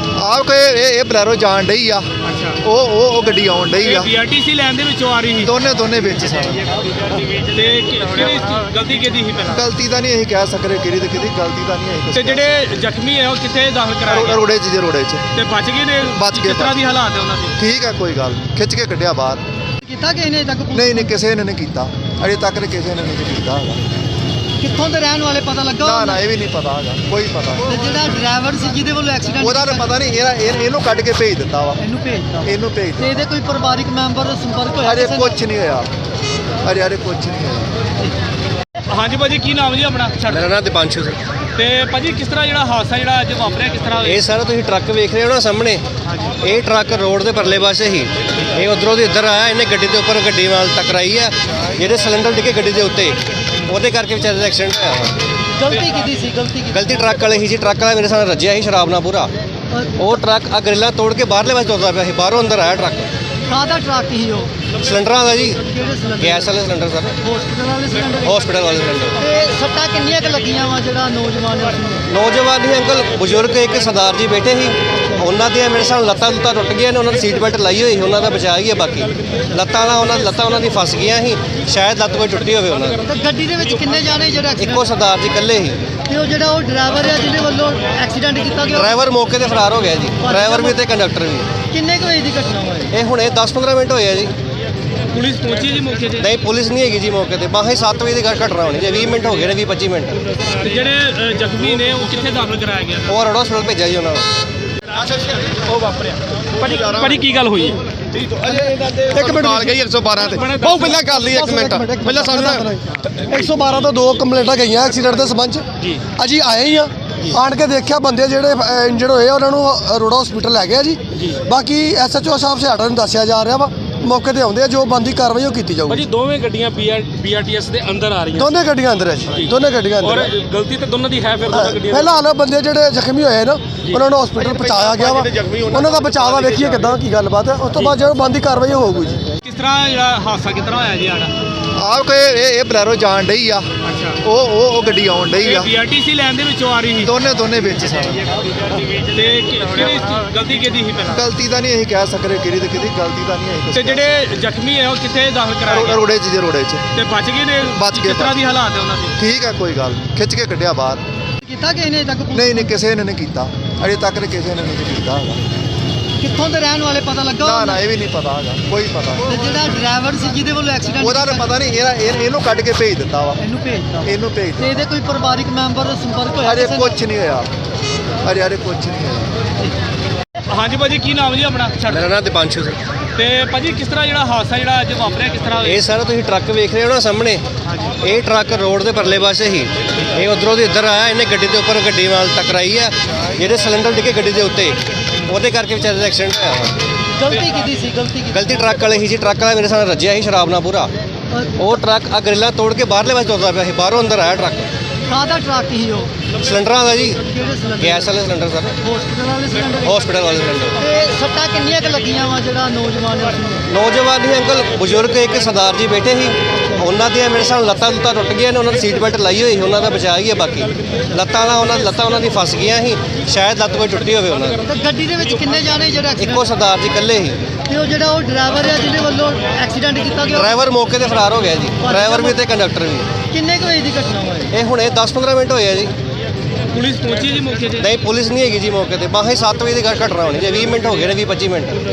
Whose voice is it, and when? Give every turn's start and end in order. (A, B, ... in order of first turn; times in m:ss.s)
0:00.2-0:02.1 A
0:02.2-0:02.6 B
0:02.6-0:04.1 A
0:03.8-0:05.5 B
0:05.4-0:06.8 A
0:07.3-0:09.6 B
0:09.4-0:12.7 A
0:12.1-0:14.4 B
0:14.1-0:15.3 A
0:15.3-0:17.6 B
0:16.2-0:16.8 A
0:17.6-0:19.4 A
0:19.8-0:21.2 C
0:20.7-0:23.8 A
0:24.6-0:26.3 C
0:25.8-0:27.7 A
0:27.6-0:30.0 C
0:29.4-0:31.8 A
0:31.8-0:35.4 C
0:32.4-0:33.2 A
0:34.8-0:35.9 A
0:36.6-0:37.8 A
0:38.9-0:40.5 B
0:40.3-0:41.2 D
0:41.6-0:44.2 B
0:44.0-0:45.8 D
0:46.4-0:55.1 D
0:55.6-0:57.0 C
0:56.7-0:59.3 D
1:00.0-1:03.1 D
1:03.5-1:04.5 C
1:04.8-1:05.6 D
1:05.6-1:06.6 C
1:06.2-1:07.2 D
1:07.2-1:08.4 C
1:08.2-1:09.2 D
1:09.2-1:12.1 C
1:12.1-1:23.0 D
1:23.1-1:24.9 C
1:24.6-1:25.8 D
1:26.1-1:29.1 C
1:28.7-1:31.5 D
1:30.2-1:30.8 C
1:31.7-1:32.9 C
1:32.9-1:34.3 D
1:35.1-1:36.3 B
1:36.2-1:40.2 D
1:40.6-1:43.2 B
1:43.1-1:44.3 D
1:45.0-1:45.6 B
1:46.6-1:47.8 B
1:46.7-1:47.2 E
1:48.2-1:52.7 E
1:48.4-1:49.8 F
1:50.2-1:51.2 B
1:51.0-2:06.1 F
2:05.9-2:08.4 B
2:08.3-2:10.3 F
2:10.0-2:12.0 B
2:11.5-2:19.2 F
2:19.4-2:21.3 B
2:21.8-2:23.7 A
2:23.8-2:24.2 B
2:24.2-2:25.7 A
2:25.4-2:27.1 B
2:27.0-2:28.3 A
2:29.1-2:31.2 B
2:31.1-2:34.2 A
2:33.7-2:36.0 B
2:35.7-2:36.9 A
2:36.9-2:39.2 B
2:37.8-2:38.4 A
2:39.2-2:41.0 A
2:41.4-2:42.9 C
2:42.3-2:45.4 A
2:46.2-2:47.9 C
2:47.4-2:49.3 A
2:49.2-2:51.6 C
2:51.0-2:53.4 A
2:53.4-2:57.0 C
2:54.0-2:54.8 A
2:56.4-2:57.5 A
2:58.2-2:59.4 A
3:00.5-3:02.1 B
3:01.9-3:02.8 D
3:03.2-3:05.8 B
3:05.6-3:07.4 D
3:08.0-3:16.7 D
3:17.2-3:18.6 C
3:18.3-3:20.9 D
3:21.6-3:24.7 D
3:25.1-3:26.1 C
3:26.4-3:27.2 D
3:27.2-3:28.2 C
3:27.8-3:28.8 D
3:28.8-3:30.0 C
3:29.8-3:30.8 D
3:30.8-3:33.7 C
3:33.7-3:44.6 D
3:44.7-3:46.5 C
3:46.2-3:47.4 D
3:47.7-3:50.7 C
3:50.3-3:53.1 D
3:51.8-3:52.4 C
3:53.3-3:54.5 C
3:54.5-3:55.9 D
3:56.7-3:57.9 B
3:57.8-4:01.8 D